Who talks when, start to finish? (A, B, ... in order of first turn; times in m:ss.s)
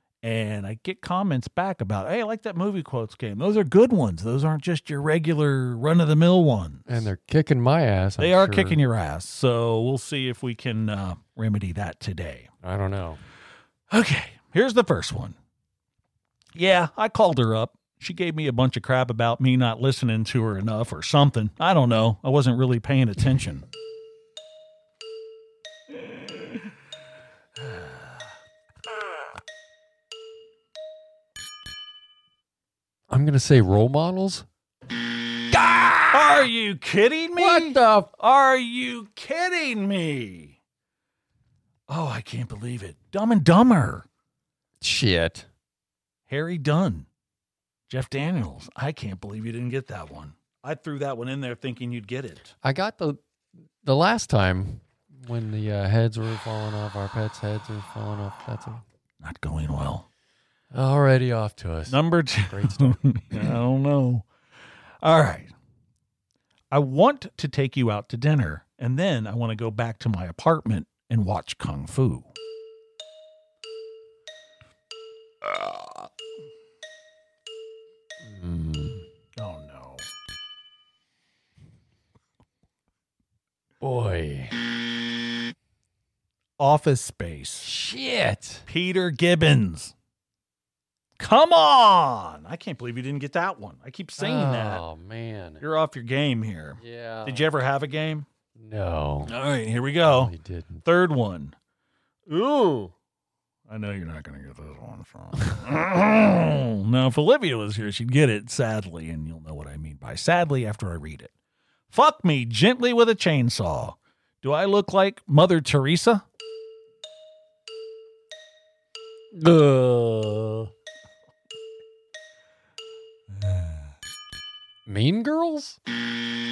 0:00.2-0:07.1 A
0:06.9-0:08.8 B
0:08.2-0:12.5 A
0:12.6-0:13.2 B
0:13.9-0:15.4 A
0:16.5-0:23.6 A
0:26.0-0:26.4 A
0:27.6-0:28.2 A
0:33.1-0:34.4 B
0:35.5-0:36.4 B
0:36.1-0:40.6 A
0:37.4-0:38.1 B
0:41.9-0:44.0 A
0:44.8-0:45.5 B
0:46.3-0:47.1 A
0:47.9-0:52.5 A
0:52.6-0:53.2 B
0:53.8-0:58.8 B
0:59.2-1:00.0 A
1:00.7-1:03.2 B
1:01.9-1:04.2 A
1:05.0-1:05.5 A
1:06.7-1:12.3 A
1:15.4-1:15.8 A
1:18.2-1:19.0 B
1:19.4-1:20.1 A
1:23.8-1:24.5 B
1:26.6-1:27.7 A
1:27.6-1:28.6 B
1:28.7-1:29.9 A
1:31.2-1:34.8 A
1:34.2-1:35.6 B
1:35.6-1:38.3 A
1:36.8-1:37.4 B
1:38.6-1:39.3 B
1:39.2-1:40.3 A
1:40.0-1:40.8 B
1:40.8-1:41.5 A
1:42.3-1:42.9 A
1:43.7-1:51.3 A
1:51.9-1:56.2 A
1:59.3-2:00.7 B
2:03.4-2:03.7 A
2:04.8-2:05.8 B